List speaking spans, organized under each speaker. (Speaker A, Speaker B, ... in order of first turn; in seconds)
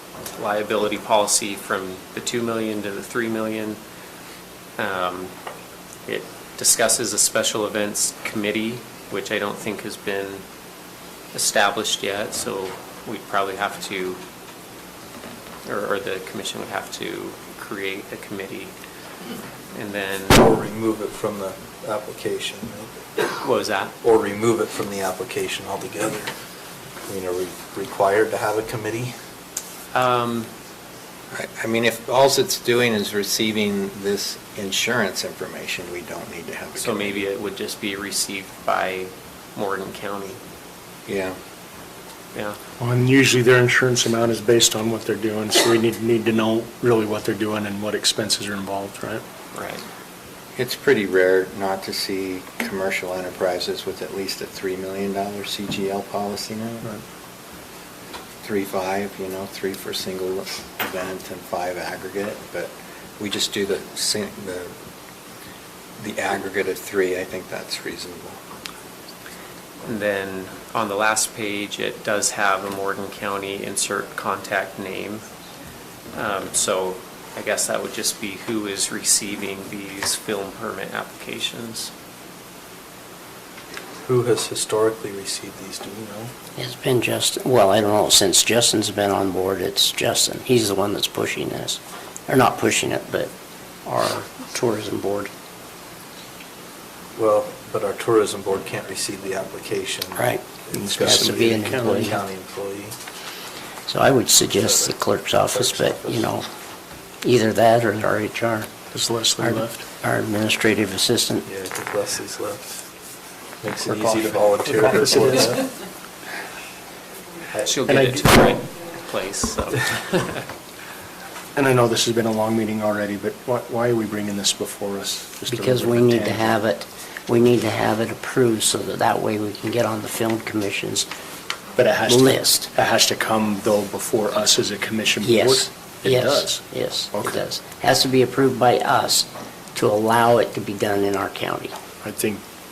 Speaker A: 0.3-3.8, 4.8-5.3, 6.0-10.4, 11.3-14.2, 15.7-18.7, 19.7-20.4, 23.4-23.9, 29.9-30.5, 36.8-40.4, 49.5-49.8, 69.8-75.2, 76.1-81.9, 117.7-120.5
Speaker B: 20.3-23.2, 24.0-26.3, 27.1-29.1, 84.0-86.3, 97.1-103.0, 104.6-104.9, 105.5-106.3, 111.5-112.8, 113.6-115.7, 117.5-117.8
Speaker C: 31.3-37.3, 41.1-41.4, 50.5-56.9, 58.4-64.7, 66.0-68.4
Speaker D: 42.8-49.2, 100.7-102.1, 108.9-109.8, 113.8-115.6, 117.8-118.5, 121.5-126.6, 131.8-137.4, 142.0-142.4
Speaker E: 86.5-93.3, 93.8-95.3, 100.2-102.2, 103.9-106.5, 107.2-108.8, 109.4-111.5, 125.5-131.1, 132.0-132.7, 135.2-141.7